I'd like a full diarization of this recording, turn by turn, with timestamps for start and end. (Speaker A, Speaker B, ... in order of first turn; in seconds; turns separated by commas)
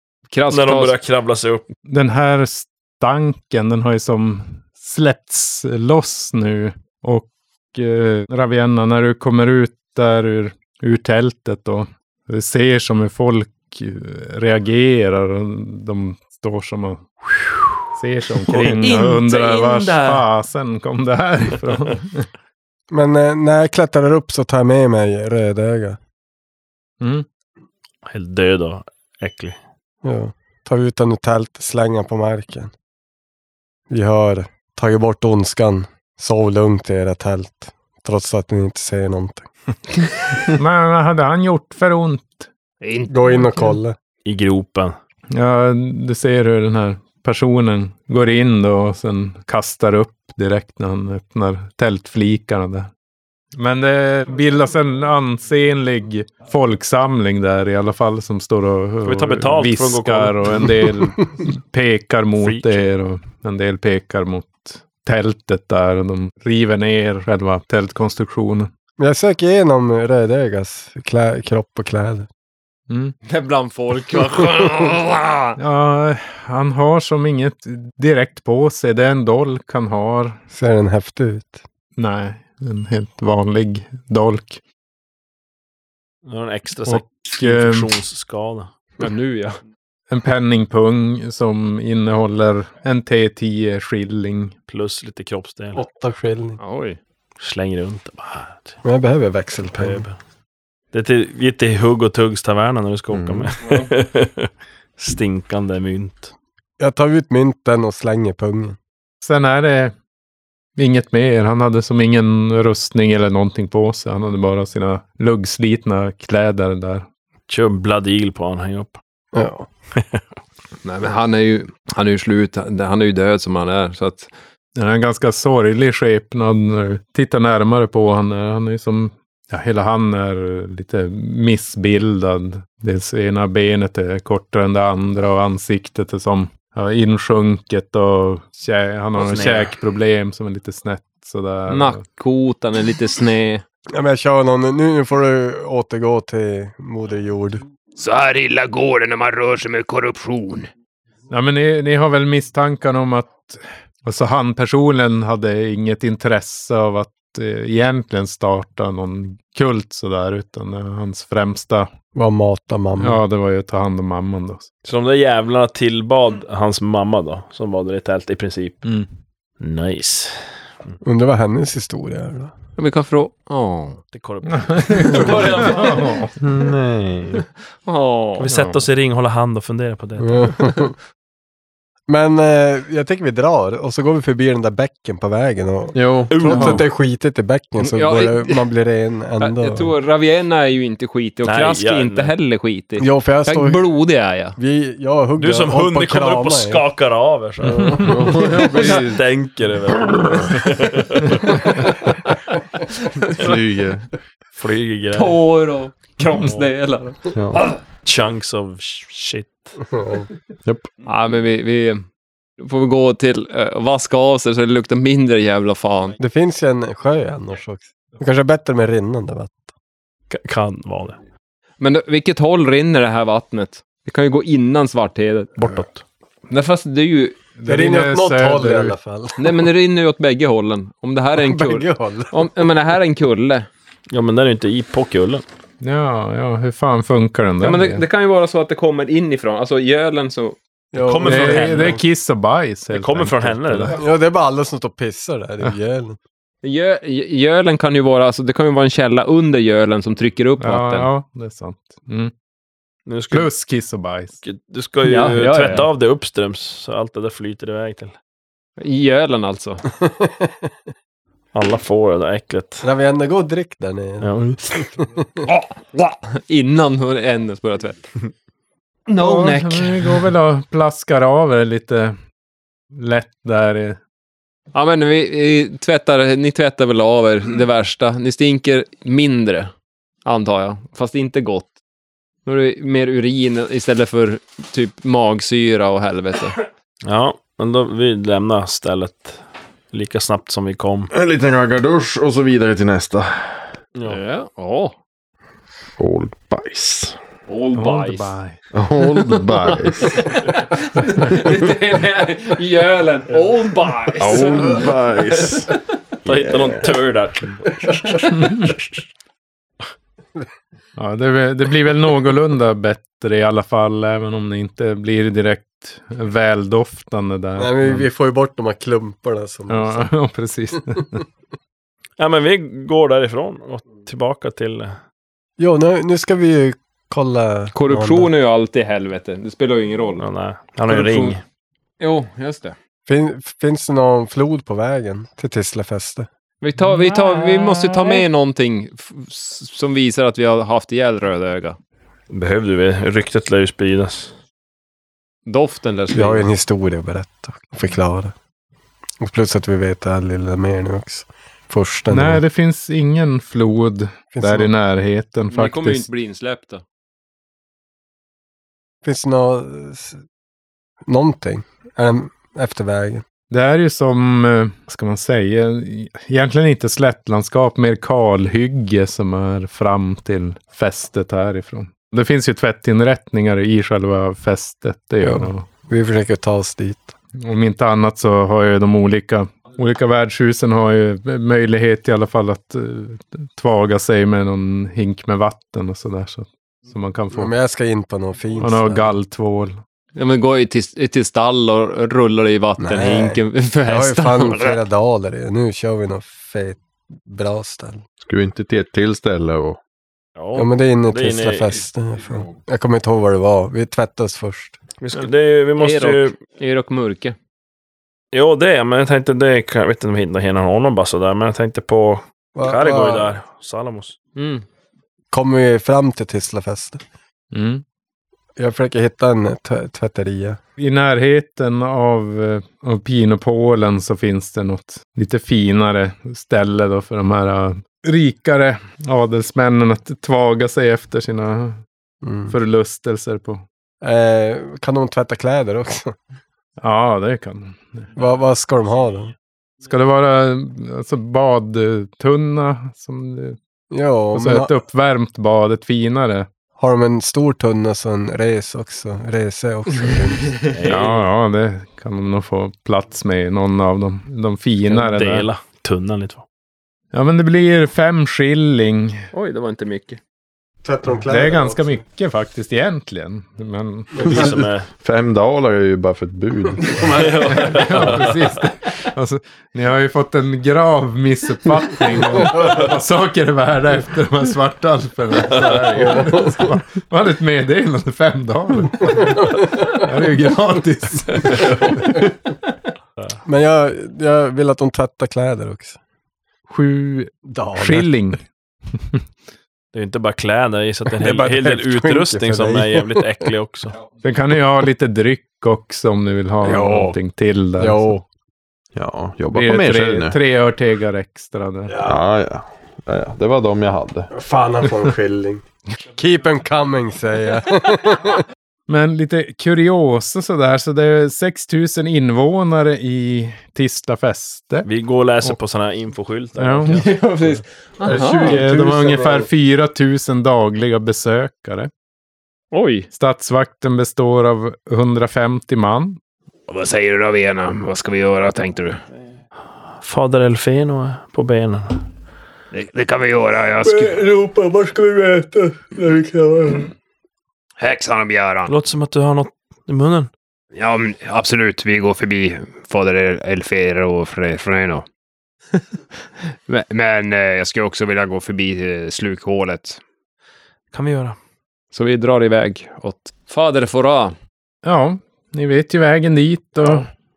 Speaker A: 0.3-0.9, Speaker B: 0.5-1.6, Speaker C: 1.9-17.2, Speaker C: 17.9-22.3, Speaker B: 18.5-19.7, Speaker D: 19.5-20.1, Speaker E: 22.9-26.0, Speaker C: 27.0-27.2, Speaker B: 28.0-29.6, Speaker E: 30.0-32.7, Speaker E: 33.9-39.5, Speaker C: 40.5-42.5, Speaker D: 42.8-43.7, Speaker E: 43.1-43.9, Speaker B: 44.2-44.9, Speaker C: 45.3-52.9, Speaker C: 53.5-68.7, Speaker B: 59.0-60.6, Speaker B: 62.4-62.9, Speaker E: 69.0-72.3, Speaker C: 72.9-73.2, Speaker A: 73.2-75.5, Speaker C: 75.6-80.4, Speaker E: 80.5-81.6, Speaker C: 82.0-84.6, Speaker B: 86.2-88.7, Speaker C: 86.8-87.9, Speaker A: 89.0-89.6, Speaker C: 90.1-94.5, Speaker B: 94.7-95.8, Speaker E: 95.8-96.6, Speaker A: 96.6-97.0, Speaker B: 97.4-98.8, Speaker E: 98.8-100.1, Speaker B: 99.8-100.1, Speaker B: 100.9-106.3, Speaker F: 103.1-103.5, Speaker E: 106.8-108.8, Speaker C: 109.2-109.9, Speaker C: 110.8-117.1, Speaker B: 117.5-119.0, Speaker E: 119.3-119.7, Speaker A: 120.8-124.3, Speaker C: 124.8-142.0, Speaker B: 139.2-139.7, Speaker A: 141.7-143.6, Speaker E: 143.9-147.6, Speaker D: 148.0-150.7, Speaker C: 151.3-161.9, Speaker E: 162.1-163.2, Speaker C: 163.0-164.7, Speaker B: 164.8-168.8, Speaker B: 169.6-170.5, Speaker E: 171.0-172.5, Speaker A: 172.8-174.0, Speaker B: 174.1-175.7, Speaker C: 174.5-176.3, Speaker A: 175.0-176.2, Speaker F: 176.4-177.4, Speaker A: 177.8-178.7, Speaker B: 178.4-180.8, Speaker C: 178.5-178.7, Speaker E: 180.2-180.9, Speaker E: 182.1-189.9, Speaker F: 185.9-186.3, Speaker B: 186.3-186.9, Speaker C: 186.5-186.8, Speaker A: 187.8-188.7, Speaker A: 189.4-194.6, Speaker B: 191.4-192.3, Speaker E: 193.0-193.9, Speaker E: 194.6-196.8, Speaker B: 195.4-201.7, Speaker E: 197.6-198.3, Speaker F: 198.0-199.3, Speaker F: 200.0-200.6, Speaker F: 203.4-204.1, Speaker B: 204.6-205.4, Speaker A: 205.1-207.8, Speaker B: 206.3-206.7, Speaker F: 207.3-207.6, Speaker B: 208.0-209.8, Speaker E: 209.9-210.3, Speaker A: 211.0-212.0, Speaker A: 212.6-216.2, Speaker E: 216.2-219.7, Speaker B: 220.3-221.2, Speaker A: 221.8-225.8, Speaker B: 225.6-226.0, Speaker A: 226.5-227.4, Speaker C: 227.6-228.9, Speaker E: 227.7-229.6, Speaker A: 229.4-233.7, Speaker E: 231.3-232.3, Speaker B: 234.1-235.4, Speaker C: 235.8-238.0, Speaker A: 237.6-240.6, Speaker E: 240.9-242.0, Speaker B: 240.9-242.0, Speaker C: 241.2-244.0, Speaker B: 242.9-244.0, Speaker E: 244.0-246.2, Speaker A: 246.6-251.1, Speaker C: 250.6-252.3, Speaker B: 253.1-253.5, Speaker C: 253.3-254.4, Speaker B: 254.4-258.1, Speaker A: 255.0-255.9, Speaker A: 258.8-259.8, Speaker E: 260.0-260.5, Speaker B: 261.5-262.8, Speaker E: 262.8-265.3, Speaker B: 264.2-264.8, Speaker A: 266.0-268.1, Speaker A: 269.1-270.3, Speaker C: 269.2-272.2, Speaker C: 272.9-274.0, Speaker A: 274.7-279.7, Speaker A: 280.2-281.7, Speaker A: 282.4-286.6, Speaker B: 287.0-291.1, Speaker F: 291.1-293.7, Speaker A: 294.0-294.9, Speaker F: 296.0-297.2, Speaker A: 297.5-298.3, Speaker C: 297.7-298.6, Speaker F: 298.7-300.4, Speaker A: 299.6-305.4, Speaker F: 304.2-307.0, Speaker B: 306.2-307.7, Speaker C: 311.0-318.1, Speaker E: 317.6-320.1, Speaker C: 319.7-321.2, Speaker B: 322.2-324.9, Speaker E: 325.6-328.3, Speaker A: 327.7-330.2, Speaker B: 330.2-331.4, Speaker A: 330.9-331.4, Speaker A: 332.0-332.7, Speaker E: 333.1-336.3, Speaker A: 336.6-341.8, Speaker B: 342.3-344.3, Speaker A: 345.4-346.5, Speaker E: 346.1-348.3, Speaker E: 349.2-352.4, Speaker C: 352.1-356.1, Speaker E: 354.3-354.7, Speaker A: 355.5-356.8, Speaker E: 359.0-360.2, Speaker E: 361.1-363.2, Speaker C: 363.5-375.6, Speaker E: 375.2-377.1, Speaker C: 377.4-387.5, Speaker E: 387.3-389.1, Speaker C: 388.6-389.8, Speaker A: 390.1-394.8, Speaker E: 392.8-398.0, Speaker F: 398.2-399.8, Speaker B: 400.4-401.8, Speaker E: 400.5-404.8, Speaker B: 405.0-406.3, Speaker A: 405.1-407.4, Speaker B: 408.3-414.1, Speaker E: 412.5-413.3, Speaker A: 414.4-414.6, Speaker E: 415.3-417.0, Speaker C: 417.5-417.8, Speaker E: 418.6-420.6, Speaker C: 420.8-431.8, Speaker E: 432.2-432.5, Speaker C: 432.5-433.6, Speaker E: 434.0-436.1, Speaker C: 436.8-438.1, Speaker E: 438.1-439.3, Speaker C: 439.8-443.6, Speaker E: 443.9-444.7, Speaker C: 444.3-446.5, Speaker E: 446.8-450.6, Speaker B: 450.7-451.2, Speaker C: 450.8-455.5, Speaker B: 454.9-456.4, Speaker C: 457.1-459.3, Speaker A: 459.3-460.2, Speaker E: 460.8-462.0, Speaker C: 461.3-464.5, Speaker E: 464.1-464.5, Speaker B: 464.2-464.9, Speaker F: 464.3-467.4, Speaker E: 466.9-467.7, Speaker B: 467.1-468.3, Speaker C: 467.5-482.2, Speaker E: 475.9-476.6, Speaker E: 483.4-486.0, Speaker C: 486.7-488.4, Speaker E: 487.4-488.1, Speaker B: 489.9-493.9, Speaker E: 491.1-493.5, Speaker C: 494.2-498.2, Speaker E: 496.6-497.1, Speaker E: 497.8-498.2, Speaker F: 498.9-500.4, Speaker C: 499.5-501.9, Speaker E: 501.9-502.2, Speaker F: 502.0-504.3, Speaker E: 504.3-508.4, Speaker C: 508.9-514.9, Speaker B: 514.8-517.1, Speaker C: 516.5-517.0, Speaker A: 516.9-518.6, Speaker E: 517.1-519.5, Speaker C: 518.1-521.9, Speaker A: 522.7-523.1, Speaker C: 523.1-526.2, Speaker D: 526.7-529.0, Speaker B: 530.0-532.0, Speaker D: 532.7-534.2, Speaker E: 533.8-536.9, Speaker D: 537.8-538.7, Speaker B: 538.7-540.3, Speaker D: 540.7-545.0, Speaker D: 546.7-550.0, Speaker B: 550.9-551.4, Speaker A: 551.9-554.4, Speaker C: 554.8-557.1